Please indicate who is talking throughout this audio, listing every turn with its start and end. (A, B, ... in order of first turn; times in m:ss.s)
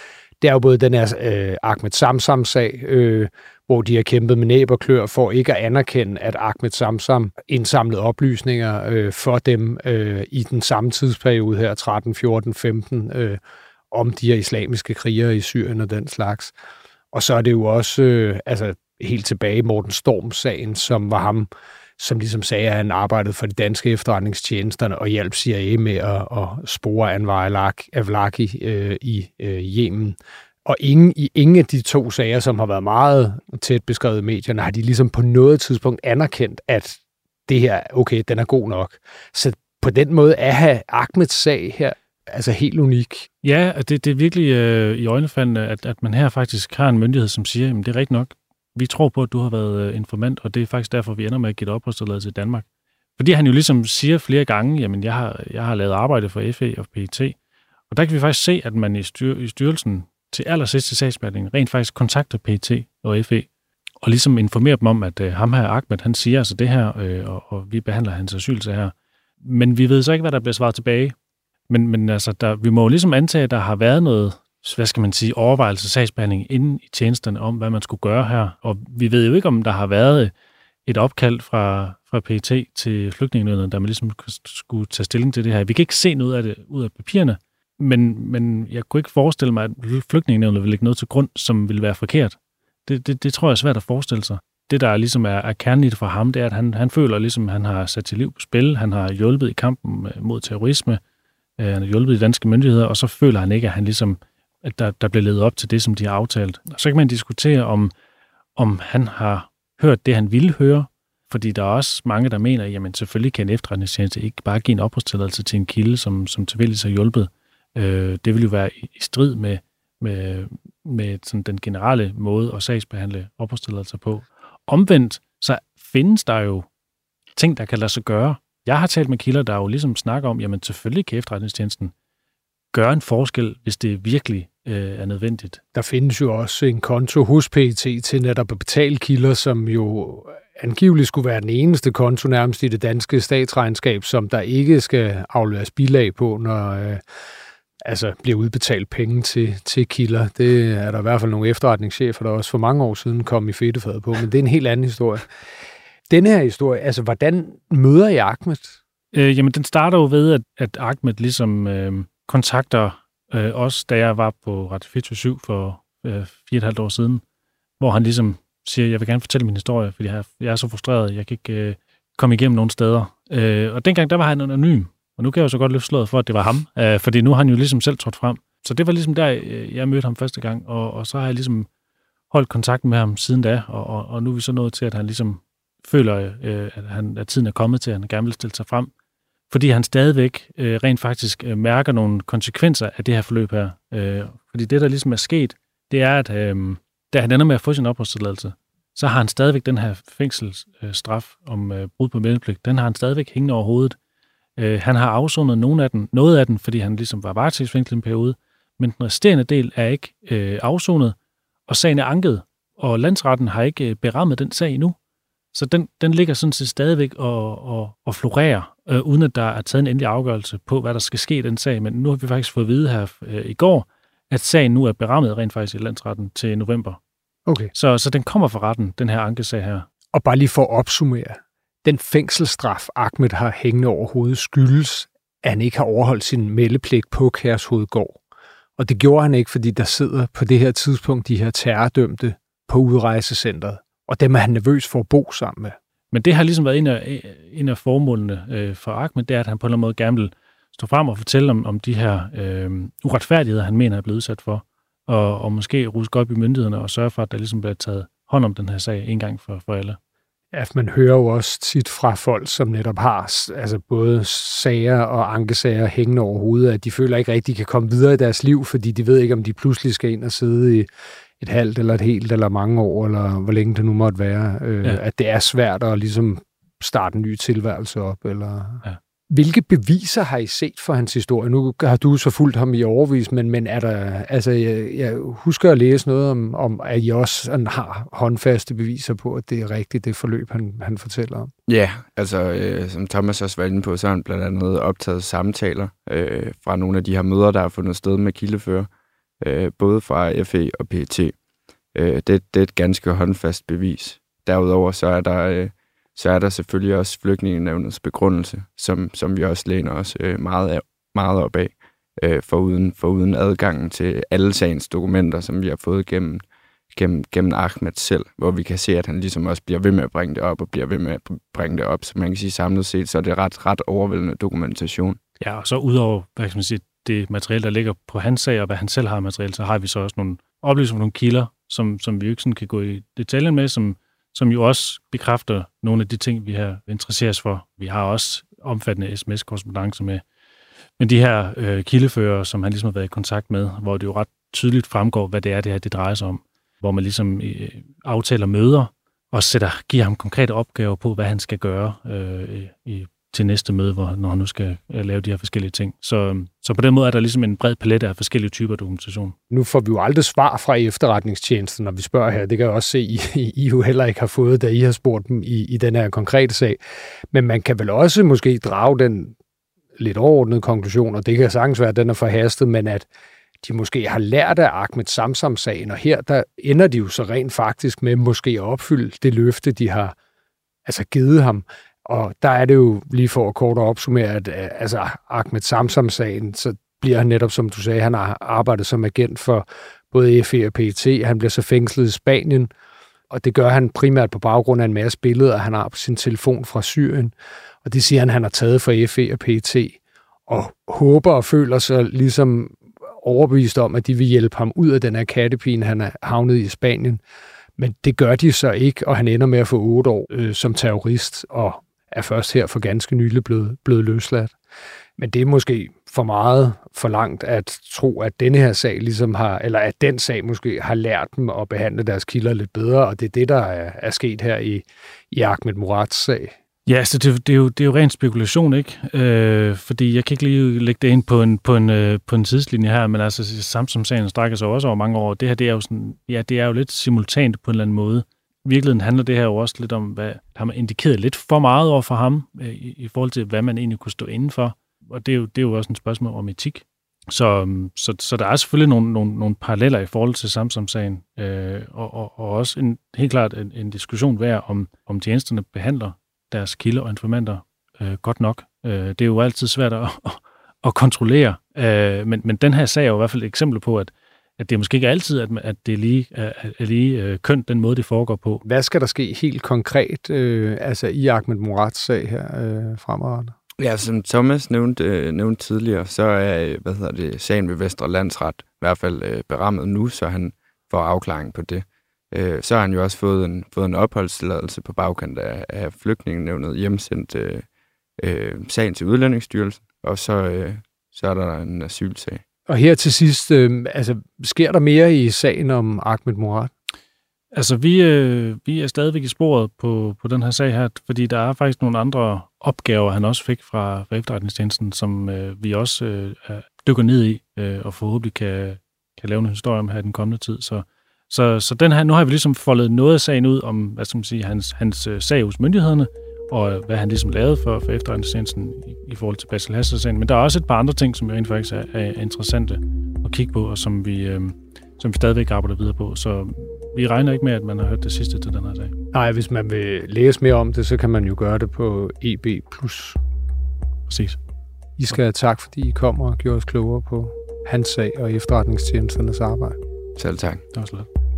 0:00.4-0:13.4 A
0:13.9-0:16.5 A
0:17.1-0:43.3 A
0:43.4-0:52.7 B
0:53.2-0:57.4 B
0:57.9-1:03.5 B
1:04.0-1:11.2 B
1:11.7-1:20.3 B
1:20.8-1:41.0 B
1:41.6-1:47.9 B
1:48.6-2:06.7 B
2:07.4-2:11.9 B
2:12.7-2:15.6 B
2:15.7-2:27.0 A
2:27.8-2:35.3 A
2:36.1-2:38.8 A
2:39.1-2:47.2 B
2:47.8-3:01.7 B
3:02.3-3:08.9 B
3:09.5-3:24.0 B
3:24.6-3:31.2 B
3:31.7-3:35.0 B
3:35.5-3:47.0 B
3:47.5-3:47.7 A
3:47.7-3:49.9 B
3:50.1-3:58.2 A
3:58.8-4:05.8 A
4:06.1-4:20.0 B
4:20.5-4:30.9 A
4:31.4-4:51.5 A
4:51.7-4:58.9 C
4:59.4-5:01.3 C
5:02.0-5:16.4 C
5:16.9-5:25.2 C
5:25.4-5:40.2 B
5:41.0-5:59.4 B
5:59.5-6:06.8 A
6:07.3-6:09.4 A
6:10.0-6:13.1 A
6:13.6-6:20.2 A
6:20.8-6:32.7 A
6:33.3-6:47.2 A
6:47.8-6:54.5 A
6:55.2-7:06.5 A
7:06.9-7:48.6 B
7:48.6-7:53.6 A
7:53.8-8:07.6 C
8:08.2-8:12.4 C
8:12.7-8:16.7 A
8:17.5-8:48.9 B
8:49.1-8:53.2 A
8:54.1-8:54.4 B
8:55.0-8:59.8 A
9:00.2-9:00.6 C
9:00.7-9:01.1 B